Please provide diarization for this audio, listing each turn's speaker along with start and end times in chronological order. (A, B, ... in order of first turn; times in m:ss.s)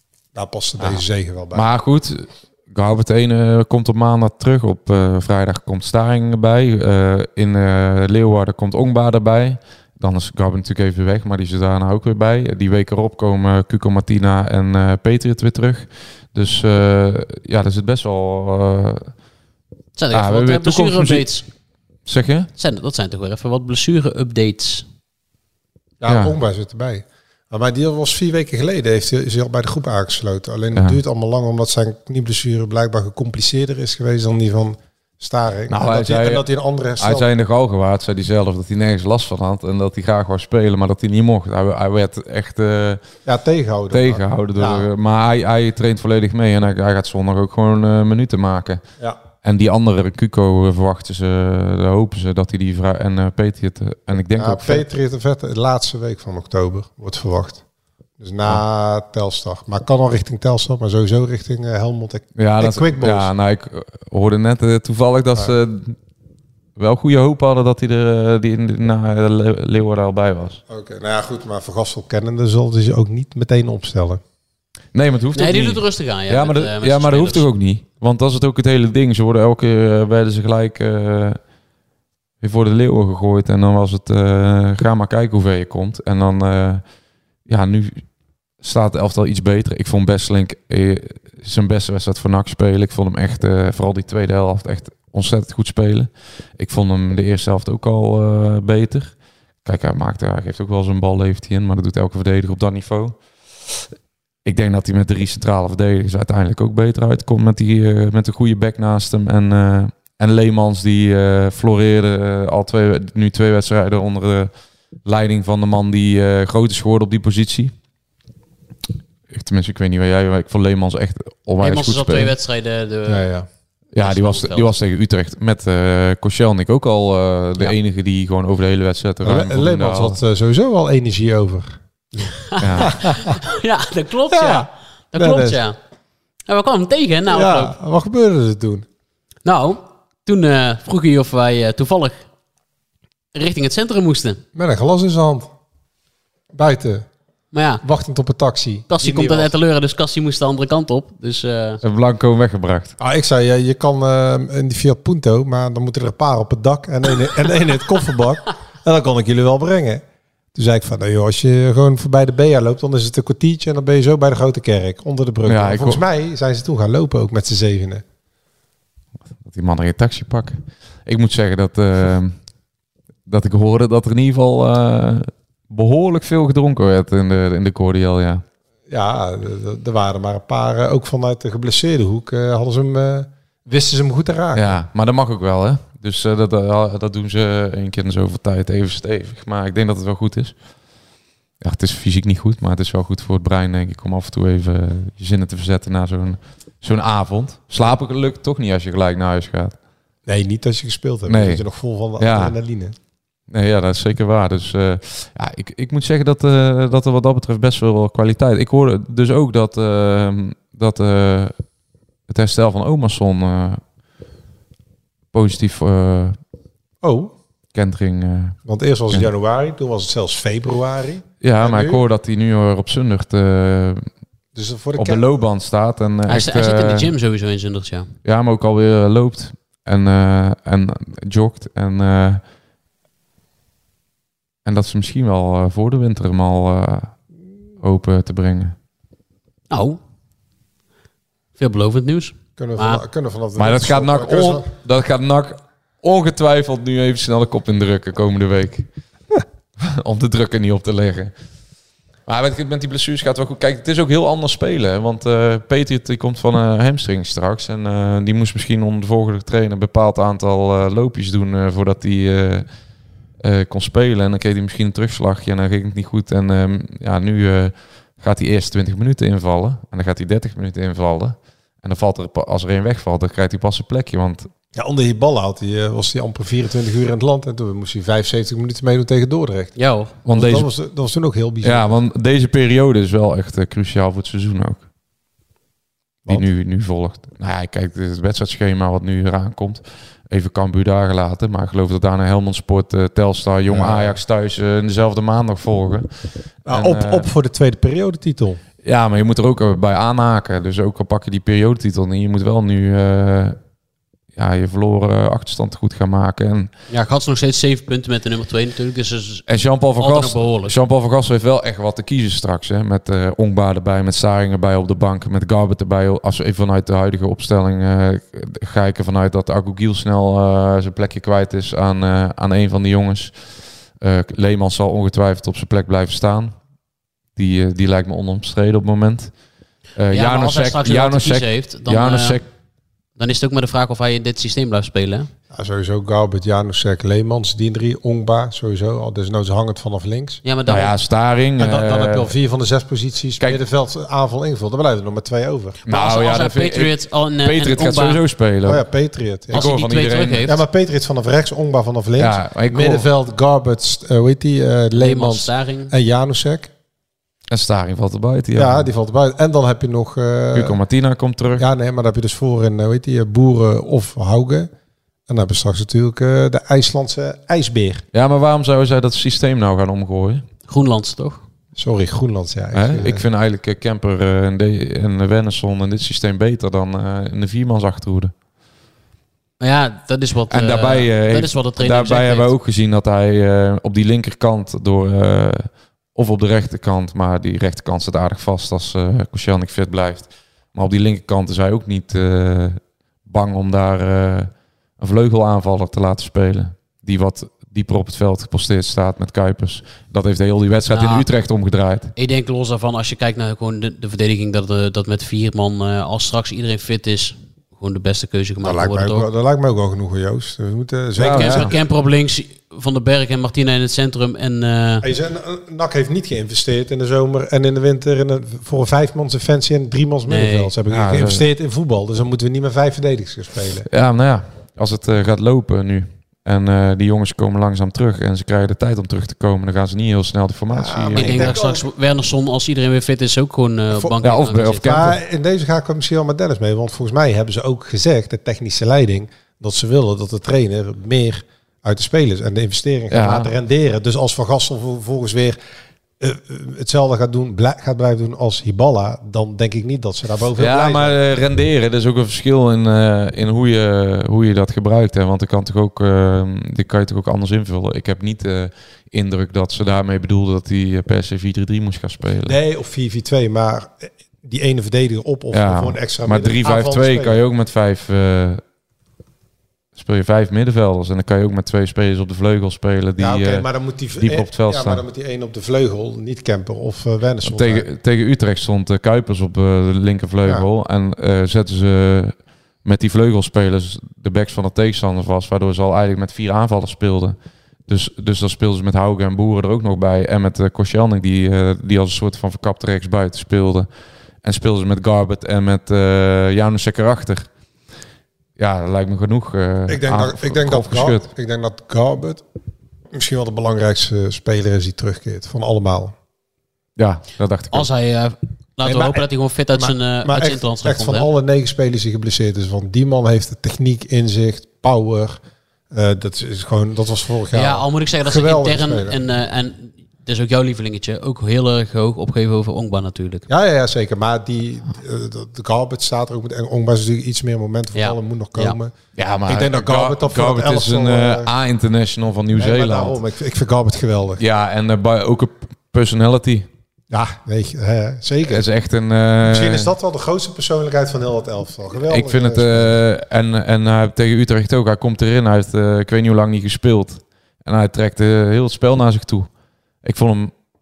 0:00.3-0:01.7 A
0:01.5-0:19.1 B
0:20.0-0:21.4 C
0:20.1-0:21.3 B
0:22.1-0:22.5 B
0:22.6-0:24.8 C
0:26.0-0:37.3 A
0:26.0-0:26.4 B
0:35.7-0:36.4 B
0:37.0-0:43.0 B
0:43.3-0:44.9 A
0:43.9-0:48.8 B
0:49.4-0:54.8 B
0:54.4-0:57.6 A
0:58.2-1:03.3 A
1:02.4-1:06.0 B
1:06.8-1:10.6 B
1:10.7-1:14.2 A
1:14.9-1:21.4 B
1:15.4-1:17.4 C
1:22.4-1:26.8 B
1:27.5-1:28.1 B
1:28.6-1:43.2 B
1:44.4-1:54.5 B
1:55.0-1:57.7 B
1:59.3-2:02.4 B
2:01.6-2:03.3 C
2:03.1-2:03.5 A
2:03.9-2:10.2 B
2:04.0-2:04.7 C
2:09.2-2:12.3 A
2:12.6-2:15.8 C
2:12.6-2:13.0 B
2:12.9-2:13.3 A
2:14.3-2:15.6 A
2:16.5-2:17.7 C
2:17.3-2:18.9 A
2:19.4-2:22.2 C
2:23.4-2:24.4 C
2:24.6-2:25.5 A
2:26.5-2:27.1 A
2:27.5-2:27.8 C
2:27.8-2:29.5 A
2:28.9-2:31.8 C
2:31.8-2:33.0 B
2:33.0-2:40.0 A
2:40.6-2:48.0 A
2:45.5-2:46.0 B
2:49.4-2:52.4 B
2:53.3-2:58.4 B
2:58.9-3:04.8 A
3:04.5-3:10.6 B
3:11.6-3:19.8 B
3:20.3-3:23.0 A
3:21.3-3:21.6 B
3:22.2-3:22.6 B
3:23.5-3:31.5 B
3:32.3-3:33.8 B
3:35.3-3:36.4 B
3:37.0-3:37.3 A
3:37.7-3:38.6 B
3:38.7-3:42.0 A
3:41.4-3:44.1 B
3:44.6-3:45.2 A
3:45.0-3:47.1 B
3:46.3-3:48.1 C
3:48.2-3:52.4 B
3:54.6-3:57.2 B
3:57.8-3:58.8 B
3:59.7-4:00.0 C
4:01.6-4:03.0 C
4:02.6-4:04.7 A
4:03.6-4:08.9 B
4:09.8-4:11.3 B
4:12.3-4:22.7 B
4:23.4-4:34.5 B
4:34.8-4:39.7 A
4:39.8-4:40.1 C
4:40.2-4:40.7 B
4:40.3-4:42.0 A
4:41.6-4:44.8 B
4:46.3-4:57.3 B
4:53.7-4:54.2 A
4:56.7-4:58.6 A
4:58.8-5:03.6 B
5:04.4-5:06.7 B
5:06.9-5:10.8 C
5:09.5-5:26.6 B
5:27.4-5:29.4 B
5:30.0-5:32.4 B
5:30.1-5:32.4 C
5:33.2-5:35.3 C
5:35.5-5:40.4 A
5:40.4-5:40.9 C
5:40.7-5:42.3 B
5:41.6-5:45.8 A
5:45.9-5:48.2 C
5:45.9-5:48.8 B
5:48.6-5:49.7 A
5:49.5-5:50.5 B
5:49.5-5:50.6 C
5:50.4-5:56.7 A
5:52.2-5:53.1 B
5:54.9-5:55.9 C
5:57.5-5:58.9 B
5:58.6-6:00.8 A
6:00.5-6:01.6 B
6:01.6-6:04.7 A
6:05.3-6:08.0 A
6:08.1-6:10.5 B
6:10.7-6:11.4 C
6:11.8-6:13.2 A
6:12.7-6:18.3 B
6:19.6-6:22.5 C
6:20.5-6:42.1 B
6:40.9-6:41.3 C
6:42.2-6:49.3 C
6:48.6-6:51.7 A
6:51.2-6:51.7 B
6:51.3-6:55.1 C
6:55.0-7:03.9 A
7:00.3-7:00.7 C
7:00.9-7:01.4 B
7:03.9-7:11.6 B
7:10.7-7:11.9 A
7:11.2-7:15.0 C
7:14.0-7:15.2 B
7:14.8-7:25.6 A
7:23.1-7:23.5 B
7:26.2-7:31.2 A
7:30.6-7:42.6 B
7:42.4-7:47.4 A
7:45.5-7:48.6 B
7:50.0-7:55.0 B
7:53.2-7:57.9 A
7:57.4-8:13.9 B
8:14.4-8:17.5 B
8:18.6-8:21.3 B
8:19.9-8:22.4 A
8:23.1-8:26.2 A
8:27.0-8:27.9 B
8:27.7-8:31.3 C
8:28.8-8:39.2 A
8:37.5-8:43.5 C
8:43.5-8:51.5 A
8:48.0-8:48.8 C
8:49.2-8:53.2 B
8:52.6-8:54.4 A
8:54.4-8:56.7 B
8:57.1-8:58.6 A
8:58.5-8:59.9 B
8:59.4-9:03.0 A
9:02.1-9:09.5 B
9:10.0-9:10.5 B